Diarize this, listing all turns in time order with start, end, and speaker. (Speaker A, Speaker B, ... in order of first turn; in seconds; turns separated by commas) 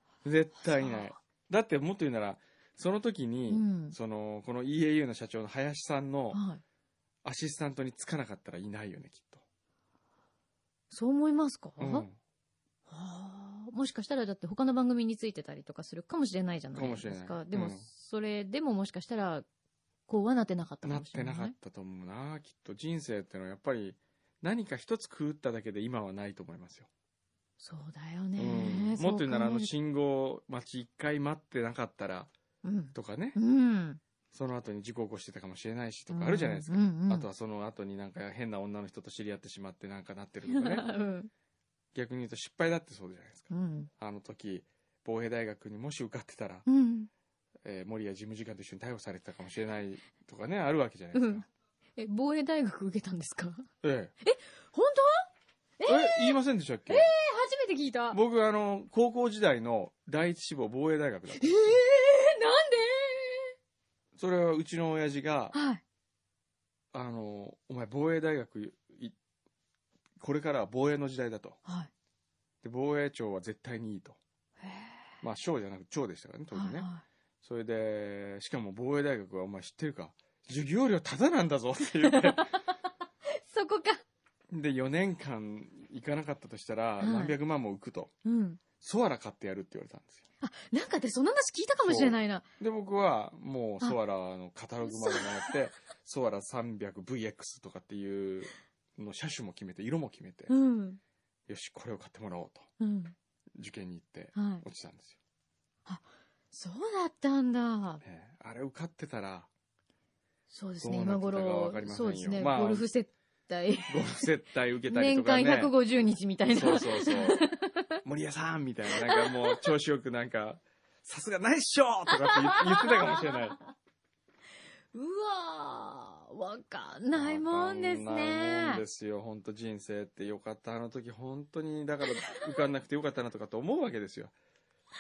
Speaker A: 0.2-6.4, Speaker B: 0.8-1.1, Speaker B: 3.5-4.0, Speaker B: 6.3-6.6, Speaker A: 7.2-9.4, Speaker B: 10.9-12.1, Speaker A: 11.8-12.2, Speaker B: 12.9-19.4, Speaker A: 16.7-17.9, Speaker B: 20.1-21.6, Speaker A: 20.8-26.9, Speaker B: 27.6-29.7, Speaker A: 28.4-32.3, Speaker B: 32.6-34.0, Speaker A: 32.9-33.4, Speaker A: 34.3-40.9, Speaker B: 36.1-37.3, Speaker B: 40.5-41.3, Speaker A: 41.9-46.7, Speaker B: 43.5-43.9, Speaker B: 46.7-47.1, Speaker A: 47.6-51.5, Speaker B: 51.1-51.4, Speaker B: 52.0-53.7, Speaker A: 53.8-54.1, Speaker B: 54.2-55.3, Speaker B: 55.8-58.2, Speaker A: 55.9-57.1, Speaker A: 58.1-61.8, Speaker B: 61.4-63.5, Speaker A: 64.2-65.5, Speaker B: 65.5-65.8, Speaker A: 66.9-69.2, Speaker A: 70.2-71.6, Speaker A: 72.6-74.2, Speaker B: 74.6-75.1, Speaker A: 75.2-76.9, Speaker B: 76.5-77.0, Speaker A: 77.4-82.5, Speaker B: 82.0-82.7, Speaker B: 83.3-84.0, Speaker A: 84.5-88.1, Speaker B: 87.0-87.4, Speaker B: 88.2-88.6, Speaker A: 88.8-90.2, Speaker B: 90.4-92.5, Speaker A: 91.8-100.5, Speaker B: 94.8-95.5, Speaker B: 100.5-101.0, Speaker A: 101.5-102.7, Speaker B: 102.8-103.2, Speaker A: 103.5-105.2, Speaker B: 104.3-104.7, Speaker B: 105.9-108.0, Speaker A: 108.0-109.5, Speaker B: 110.5-114.3, Speaker A: 110.8-112.9, Speaker A: 113.9-115.7, Speaker B: 114.9-118.0, Speaker A: 116.5-117.5, Speaker A: 118.0-123.6, Speaker B: 118.9-119.7, Speaker B: 122.1-123.4, Speaker B: 124.9-128.8, Speaker A: 127.1-134.3, Speaker B: 132.1-132.4